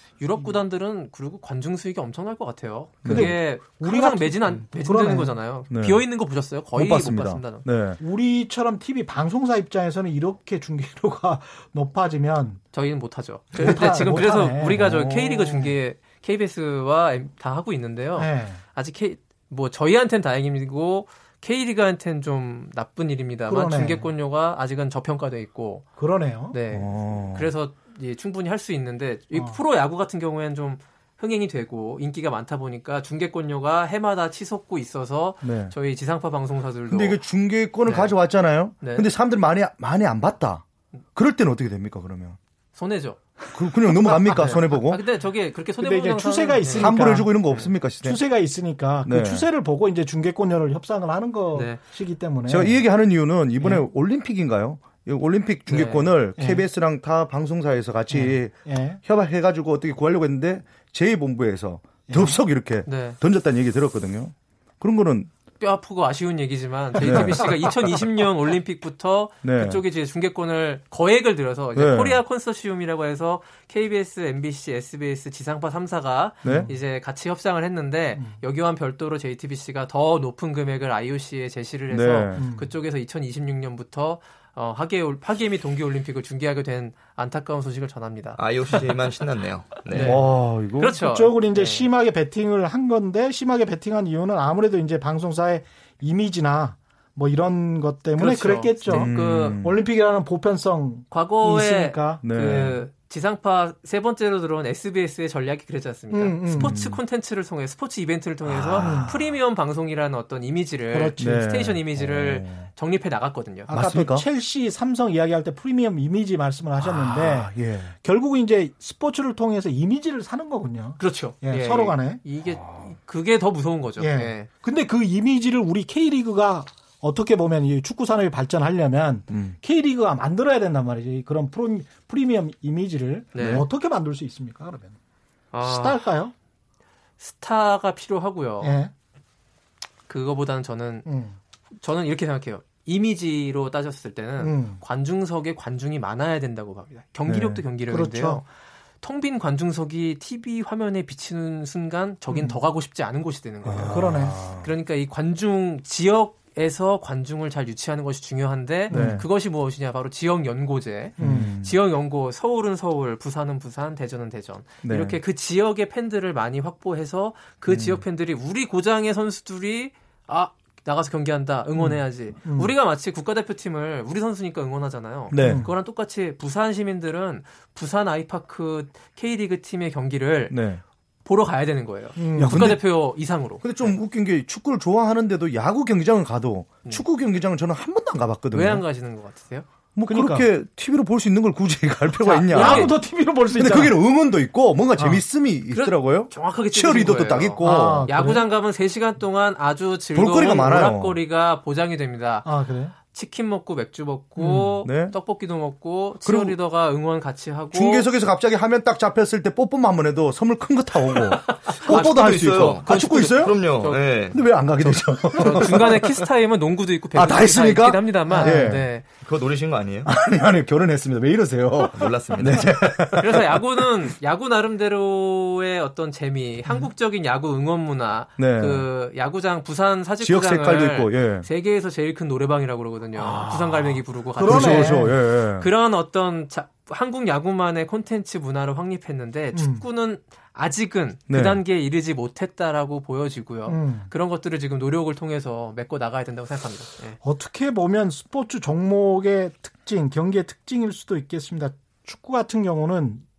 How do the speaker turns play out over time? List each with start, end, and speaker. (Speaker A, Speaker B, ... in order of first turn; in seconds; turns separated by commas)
Speaker A: 0.2-7.6, Speaker B: 3.0-3.3, Speaker C: 3.0-5.3, Speaker B: 5.7-6.1, Speaker B: 6.7-8.0, Speaker C: 8.0-12.6, Speaker A: 12.7-25.9, Speaker C: 13.5-14.8, Speaker B: 14.7-15.7, Speaker C: 18.1-18.6, Speaker C: 23.5-24.1, Speaker C: 26.0-26.6, Speaker A: 26.5-37.2, Speaker B: 26.7-27.5, Speaker C: 29.3-29.6, Speaker B: 35.4-35.7, Speaker B: 36.9-40.6, Speaker A: 37.8-38.1, Speaker A: 38.8-39.1, Speaker B: 41.1-42.4, Speaker A: 42.7-43.2, Speaker B: 43.5-45.0, Speaker A: 44.3-47.7, Speaker C: 45.8-52.8, Speaker B: 46.7-48.2, Speaker B: 49.0-49.5, Speaker A: 51.5-51.8, Speaker B: 52.5-65.3, Speaker C: 53.6-53.8, Speaker A: 55.7-56.1, Speaker C: 56.4-56.6, Speaker C: 58.1-59.0, Speaker C: 62.1-62.4, Speaker A: 62.9-63.2, Speaker A: 65.6-88.4, Speaker B: 67.0-67.7, Speaker C: 67.0-67.5, Speaker B: 69.4-69.8, Speaker B: 71.7-72.2, Speaker B: 76.4-76.7, Speaker C: 76.4-76.7, Speaker B: 81.9-82.5, Speaker C: 82.3-82.7, Speaker D: 88.4-90.2, Speaker B: 89.9-90.9, Speaker A: 89.9-90.2, Speaker A: 90.8-91.9, Speaker C: 90.9-102.7, Speaker A: 98.2-99.6, Speaker B: 98.8-99.8, Speaker A: 101.1-113.7, Speaker B: 102.2-102.8, Speaker C: 106.1-106.8, Speaker B: 106.5-107.0, Speaker B: 108.5-109.2, Speaker C: 108.8-109.2, Speaker C: 110.9-111.2, Speaker B: 111.2-112.7, Speaker C: 113.7-122.2, Speaker B: 113.7-114.3, Speaker B: 116.8-118.0, Speaker A: 121.0-124.5, Speaker B: 122.4-123.0, Speaker C: 124.0-134.9, Speaker B: 129.3-129.6, Speaker A: 133.3-133.6, Speaker B: 133.3-133.7, Speaker A: 135.5-136.0, Speaker C: 135.6-136.3, Speaker A: 137.2-138.8, Speaker C: 138.6-138.9, Speaker A: 140.1-141.1, Speaker C: 141.1-141.4, Speaker A: 141.8-148.4, Speaker C: 144.4-144.8, Speaker B: 147.3-147.6, Speaker C: 147.9-148.4, Speaker A: 149.0-180.6, Speaker C: 152.3-152.6, Speaker B: 153.6-154.7, Speaker C: 153.9-154.4, Speaker C: 158.9-159.2, Speaker B: 158.9-159.2, Speaker C: 161.2-161.5, Speaker B: 161.2-161.8, Speaker B: 164.8-165.2, Speaker B: 167.7-168.0, Speaker C: 171.8-172.7, Speaker B: 175.3-175.7, Speaker C: 175.3-175.7, Speaker B: 180.5-180.8, Speaker A: 181.2-183.9, Speaker C: 182.2-182.7, Speaker B: 182.3-188.8, Speaker A: 188.5-189.7, Speaker B: 189.9-198.4, Speaker C: 190.1-190.4, Speaker A: 192.2-192.9, Speaker C: 192.5-193.9, Speaker C: 195.0-195.2, Speaker A: 195.7-202.5, Speaker C: 197.6-198.4, Speaker B: 200.1-201.2, Speaker C: 202.4-202.9, Speaker A: 203.0-208.1, Speaker C: 204.4-204.7, Speaker B: 204.8-205.2, Speaker B: 206.2-206.5, Speaker B: 207.7-213.6, Speaker A: 211.4-214.0, Speaker D: 211.9-215.4, Speaker B: 214.3-216.2, Speaker A: 215.4-219.0, Speaker B: 217.1-218.9, Speaker C: 218.3-218.7, Speaker D: 219.2-220.1, Speaker B: 220.0-224.1, Speaker D: 221.9-222.7, Speaker A: 223.2-247.2, Speaker B: 228.4-228.9, Speaker B: 230.2-231.5, Speaker B: 233.2-235.7, Speaker C: 234.4-235.1, Speaker C: 239.5-239.8, Speaker B: 241.3-241.6, Speaker C: 243.7-244.1, Speaker C: 247.2-253.2